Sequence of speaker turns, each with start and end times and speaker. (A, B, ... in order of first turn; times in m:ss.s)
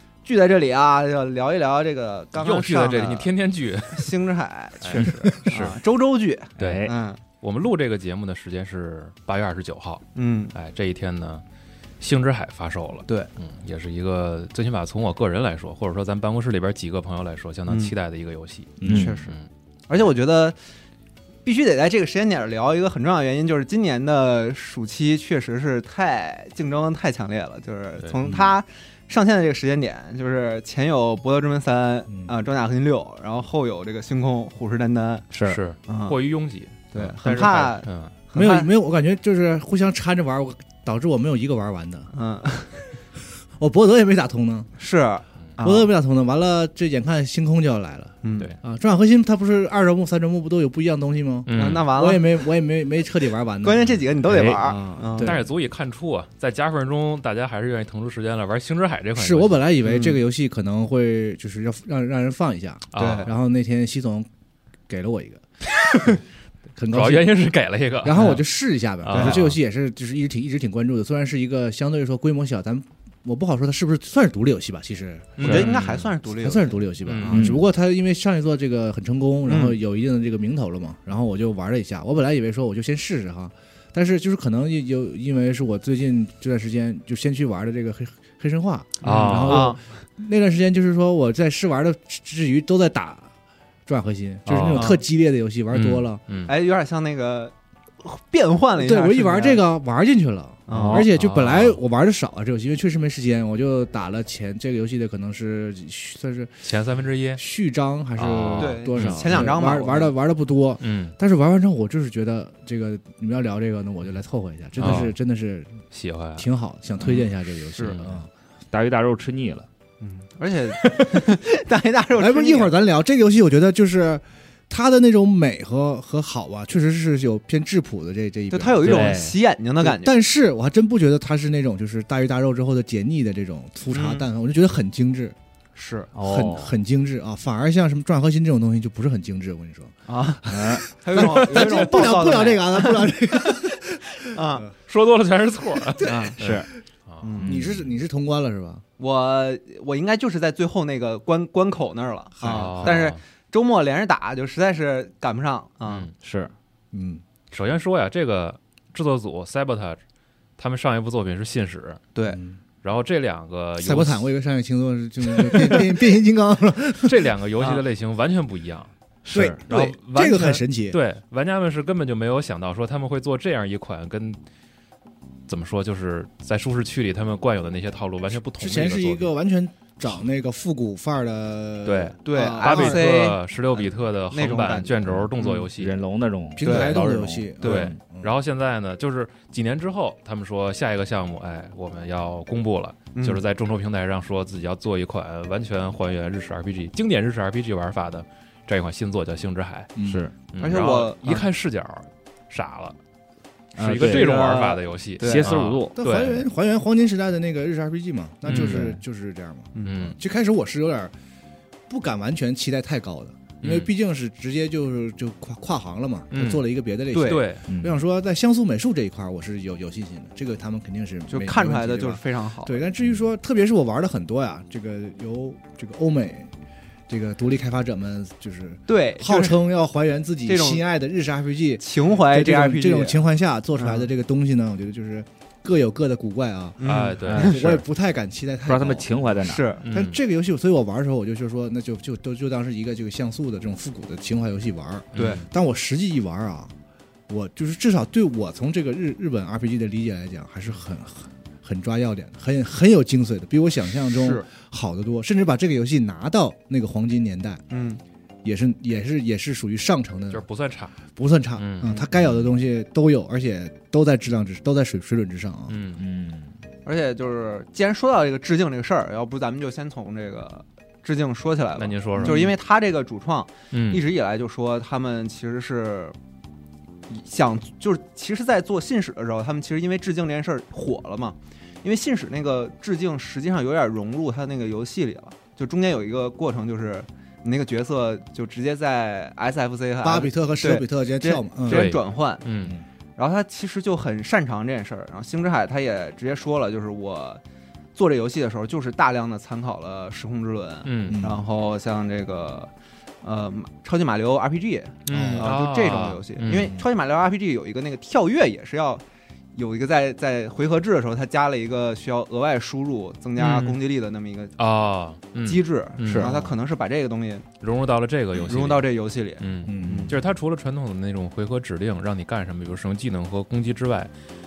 0:00.2-0:03.3 A
0:02.4-0:04.1 B
0:03.9-0:07.2 A
0:04.8-0:05.8 B
0:06.6-0:06.9 B
0:06.6-0:06.9 C
0:07.4-0:11.4 B
0:10.2-0:10.5 A
0:12.0-0:19.5 B
0:18.8-0:19.2 D
0:18.8-0:19.2 C
0:18.9-0:19.4 A
0:19.9-0:20.6 A
0:21.4-0:35.3 A
0:32.1-0:32.3 D
0:35.3-0:35.6 C
0:35.4-0:38.1 B
0:35.9-0:36.2 A
0:36.9-0:38.7 A
0:38.3-0:42.1 D
0:42.1-0:42.8 A
0:43.6-0:44.7 D
0:44.8-0:45.9 A
0:45.6-0:53.9 D
0:48.2-0:48.5 A
0:51.5-0:51.9 B
0:51.5-0:52.5 A
0:53.6-0:55.4 A
0:54.3-0:54.6 C
0:54.6-0:55.5 D
0:55.2-0:59.6 B
0:59.2-1:04.3 D
0:59.8-1:00.2 A
1:02.9-1:03.3 B
1:03.0-1:03.3 A
1:04.9-1:05.4 D
1:06.8-1:07.4 D
1:06.9-1:08.4 B
1:08.0-1:33.3 D
1:09.0-1:09.6 B
1:09.1-1:09.4 A
1:15.4-1:16.1 B
1:15.4-1:16.8 A
1:17.0-1:17.6 B
1:17.3-1:17.6 C
1:19.5-1:19.8 A
1:29.0-1:29.8 B
1:29.4-1:29.8 A
1:33.9-1:36.2 D
1:34.5-1:34.9 C
1:34.6-1:35.0 B
1:35.7-1:36.5 B
1:36.5-1:39.6 A
1:38.8-1:46.6 D
1:40.7-1:41.0 A
1:40.7-1:41.3 C
1:41.2-1:41.8 B
1:46.6-1:47.4 B
1:47.4-1:55.8 D
1:48.2-1:49.5 B
1:48.6-1:50.1 A
1:50.8-1:51.1 B
1:54.8-1:55.2 B
1:55.9-1:56.5 B
1:56.4-1:58.3 D
1:57.8-1:58.2 B
1:58.7-1:59.7 C
2:00.0-2:02.7 A
2:02.2-2:09.2 D
2:08.5-2:10.1 A
2:08.8-2:09.4 C
2:09.8-2:15.4 D
2:13.9-2:14.3 A
2:15.8-2:16.1 A
2:16.1-2:16.8 C
2:16.2-2:24.2 D
2:20.1-2:24.7 A
2:20.5-2:21.3 C
2:24.9-2:27.3 B
2:26.0-2:26.4 A
2:26.0-2:26.7 C
2:27.2-2:27.6 A
2:27.4-2:27.8 C
2:27.4-2:28.8 D
2:29.0-2:36.1 A
2:32.4-2:33.0 D
2:32.5-2:33.2 B
2:35.9-2:36.1 B
2:36.2-2:36.5 C
2:36.9-2:37.2 D
2:37.5-2:40.0 B
2:40.6-2:42.0 B
2:42.2-2:42.4 A
2:42.3-2:42.6 D
2:42.8-2:44.3 B
2:43.8-2:47.3 D
2:47.0-2:48.9 B
2:49.2-2:49.6 C
2:49.3-2:51.0 D
2:49.7-2:54.4 B
2:49.7-2:50.0 A
2:55.5-2:59.3 B
2:58.6-3:03.1 D
3:01.9-3:06.0 B
3:02.2-3:05.7 A
3:05.8-3:07.5 C
3:06.6-3:08.3 D
3:06.6-3:07.0 A
3:07.6-3:07.9 A
3:07.6-3:23.0 B
3:13.2-3:13.4 A
3:20.0-3:20.2 D
3:20.0-3:20.3 C
3:20.6-3:21.5 A
3:23.8-3:24.5 C
3:23.8-3:26.5 B
3:24.0-3:25.5 A
3:25.2-3:25.9 C
3:26.0-3:31.1 D
3:28.4-3:28.9 B
3:28.5-3:29.0 C
3:29.9-3:30.2 B
3:31.9-3:46.5 D
3:33.6-3:33.9 B
3:36.3-3:37.6 B
3:37.1-3:37.5 A
3:37.7-3:38.0 C
3:41.3-3:42.8 A
3:47.1-4:06.7 D
3:48.9-3:49.6 A
3:50.5-3:50.8 A
3:51.8-3:53.2 A
3:53.8-3:54.1 A
3:56.8-3:57.8 A
3:56.8-3:57.6 B
3:57.3-3:57.7 C
3:58.6-3:59.7 C
3:59.4-3:59.8 A
3:59.8-4:00.2 B
4:05.1-4:05.4 B
4:05.2-4:05.4 A
4:07.3-4:17.6 D
4:17.7-4:18.0 A
4:18.4-4:20.4 D
4:20.3-4:21.0 B
4:21.2-4:25.8 D
4:21.6-4:22.0 B
4:25.7-4:26.0 B
4:26.0-4:26.5 C
4:26.8-4:36.2 A
4:31.8-4:32.5 B
4:33.7-4:34.0 B
4:37.1-4:52.4 A
4:50.0-4:51.9 D
4:51.7-4:52.8 B
4:53.2-4:57.4 A
4:58.0-5:02.7 A
5:00.8-5:01.2 B
5:01.1-5:01.4 D
5:03.2-5:09.0 A
5:05.1-5:06.8 B
5:05.1-5:05.5 D
5:06.5-5:06.8 D
5:09.6-5:14.5 A
5:13.4-5:13.8 B
5:14.6-5:16.6 B
5:15.4-5:17.5 A
5:16.0-5:16.3 C
5:17.6-5:24.1 B
5:18.4-5:20.2 A
5:19.7-5:20.2 D